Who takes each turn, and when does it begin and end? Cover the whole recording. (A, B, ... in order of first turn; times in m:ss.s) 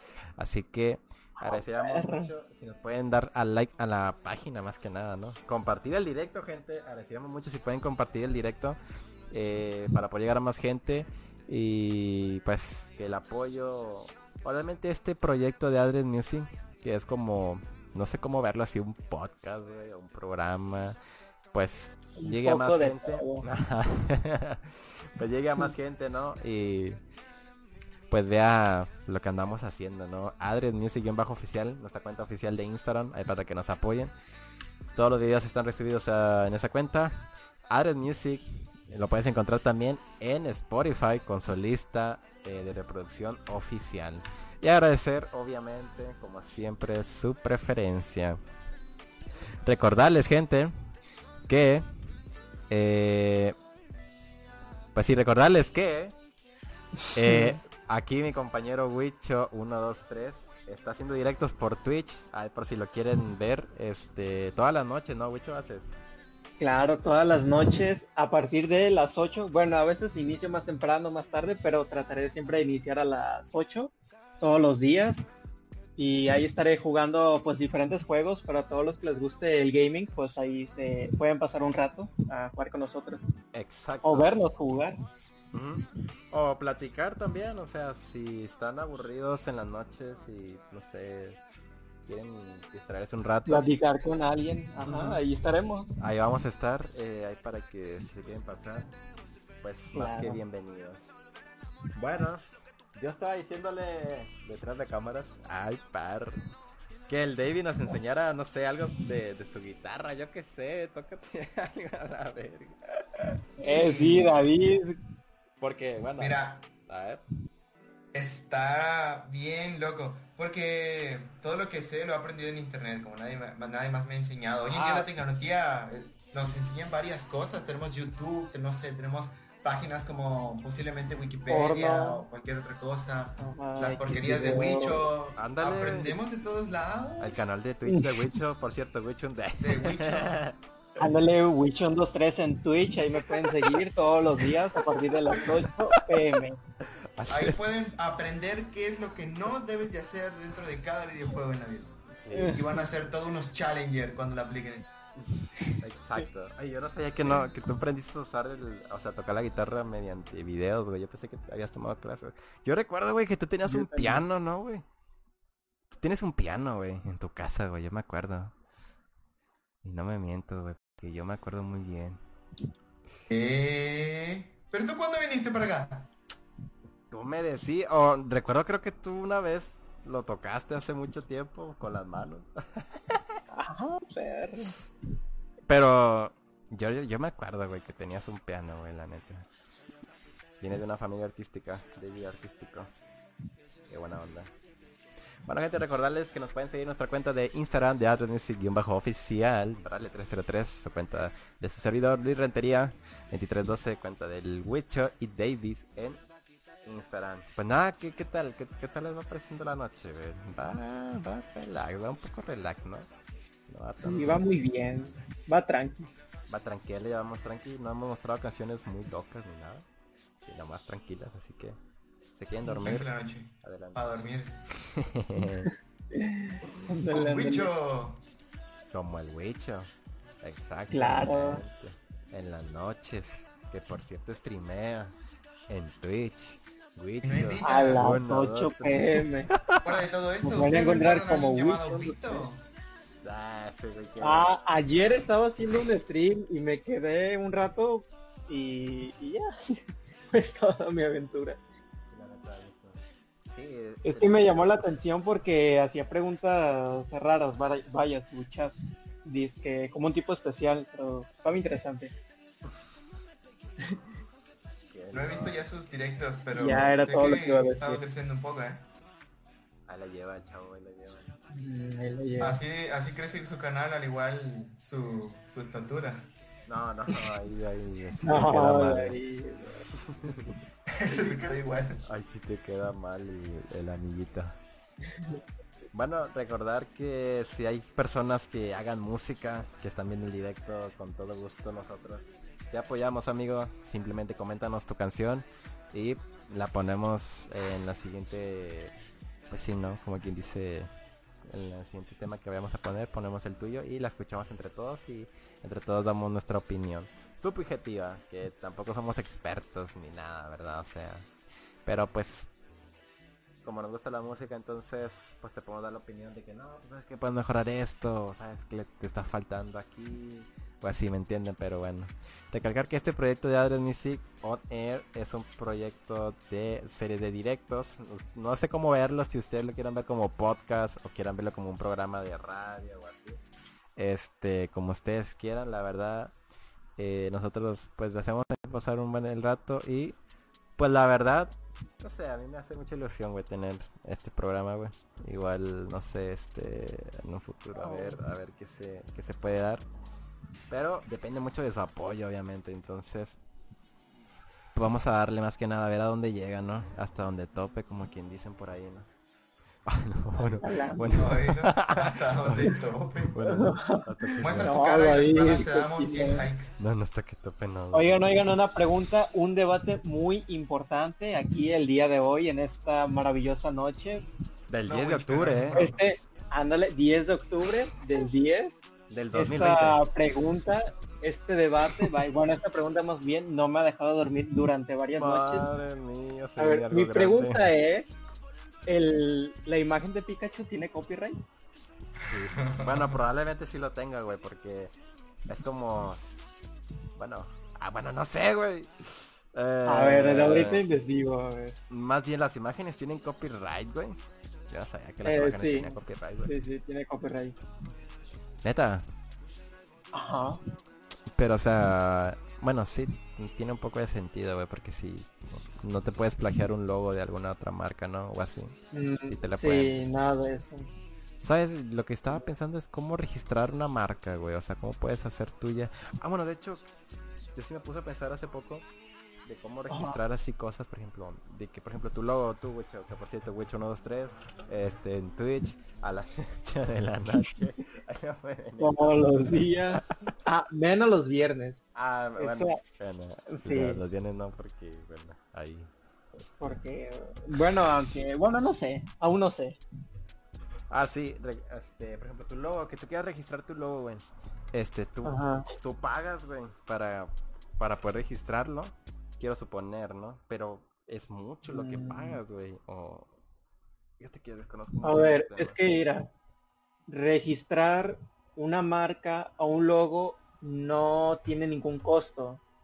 0:00.4-0:08.8 A
0:01.4-0:02.3 B
0:09.3-0:21.0 A
0:21.5-0:27.0 A
0:22.2-0:23.4 B
0:28.1-0:34.1 A
0:34.9-0:48.4 A
0:49.6-0:50.7 A
0:51.5-0:51.8 A
0:52.7-0:53.6 A
0:54.9-0:56.1 A
0:57.0-0:57.6 B
0:57.1-1:05.9 A
1:06.6-1:15.3 B
1:16.0-1:23.2 B
1:23.5-1:24.4 A
1:24.0-1:25.0 B
1:25.5-1:31.4 A
1:32.0-1:33.7 A
1:33.5-1:35.9 B
1:36.0-1:38.9 A
1:39.6-1:41.1 A
1:39.9-1:40.4 B
1:41.9-1:46.4 A
1:47.1-1:53.3 A
1:53.6-1:55.0 B
1:53.6-1:54.3 C
1:55.6-1:57.2 A
1:56.2-1:56.7 C
1:58.1-2:17.5 C
2:04.7-2:05.2 A
2:11.5-2:12.2 B
2:13.4-2:15.0 B
2:15.4-2:16.2 A
2:17.2-2:21.1 A
2:17.9-2:18.4 B
2:19.6-2:20.4 C
2:21.0-2:26.6 B
2:23.2-2:23.8 A
2:24.9-2:25.4 A
2:26.8-2:27.6 A
2:27.3-2:32.0 C
2:32.2-2:32.6 A
2:32.3-2:32.8 B
2:32.5-2:34.9 C
2:35.8-2:44.8 A
2:43.7-2:44.2 B
2:45.9-2:48.5 A
2:49.8-2:52.2 A
2:53.3-2:56.1 C
2:57.1-3:03.4 A
3:03.5-3:04.8 B
3:05.7-3:09.5 A
3:10.6-3:12.9 A
3:13.9-3:14.5 A
3:15.4-3:26.2 A
3:26.8-3:33.1 A
3:33.7-3:34.4 A
3:34.0-3:36.1 B
3:36.5-3:39.9 A
3:40.4-3:41.8 A
3:42.3-3:43.1 A
3:42.7-3:44.6 C
3:43.6-3:44.0 A
3:44.8-3:45.7 A
3:46.1-3:47.7 B
3:47.1-3:48.2 C
3:48.9-3:49.9 A
3:50.4-3:55.1 A
3:50.9-3:51.6 B
3:55.7-4:00.0 A
3:57.2-3:58.1 C
3:57.6-3:59.5 B
3:59.8-4:02.6 C
4:00.4-4:02.2 B
4:03.2-4:04.5 A
4:04.2-4:11.6 B
4:12.0-4:14.8 A
4:14.0-4:22.1 B
4:24.9-4:25.6 A
4:25.1-4:28.8 C
4:26.5-4:28.0 B
4:29.9-4:31.3 A
4:31.5-4:32.6 B
4:32.4-4:36.3 C
4:36.7-4:39.2 A
4:38.2-4:39.8 B
4:39.9-4:40.6 A
4:40.9-4:42.0 C
4:42.0-4:44.6 A
4:45.9-4:58.9 A
4:59.5-5:00.9 A
5:01.4-5:11.3 A
5:11.9-5:12.5 A
5:13.6-5:33.4 A
5:34.0-5:36.3 A
5:37.0-5:40.2 A
5:40.8-5:49.9 A
5:47.8-5:48.2 B
5:50.7-5:53.4 A
5:54.7-5:59.1 A
5:59.8-6:04.9 A
6:00.4-6:01.3 B
6:01.1-6:03.4 C
6:03.4-6:06.5 B
6:04.4-6:06.7 C
6:06.8-6:08.4 A
6:07.9-6:14.2 B
6:14.7-6:15.9 A
6:14.8-6:16.0 C
6:15.7-6:18.8 B
6:19.1-6:20.1 A
6:19.3-6:25.7 B
6:25.2-6:27.7 A
6:26.6-6:28.1 B
6:28.9-6:31.4 B
6:32.2-6:33.2 C
6:32.2-6:34.9 A
6:35.4-6:36.4 A
6:37.2-6:40.8 A
6:39.9-6:41.8 B
6:41.9-6:46.6 A
6:45.2-6:47.6 B
6:48.6-6:49.0 A
6:50.1-6:50.6 B
6:51.3-7:00.0 A
6:58.9-7:00.9 B
7:01.4-7:06.9 A
7:07.5-7:08.9 A
7:09.4-7:20.0 A
7:09.9-7:10.2 B
7:18.8-7:21.8 B
7:22.0-7:25.9 A
7:22.4-7:22.8 B
7:23.5-7:24.0 B
7:26.6-7:29.8 B
7:30.9-7:43.3 A
7:35.2-7:35.7 B
7:41.7-7:42.4 B
7:44.2-7:45.8 A
7:45.0-7:46.3 B
7:47.1-7:52.6 B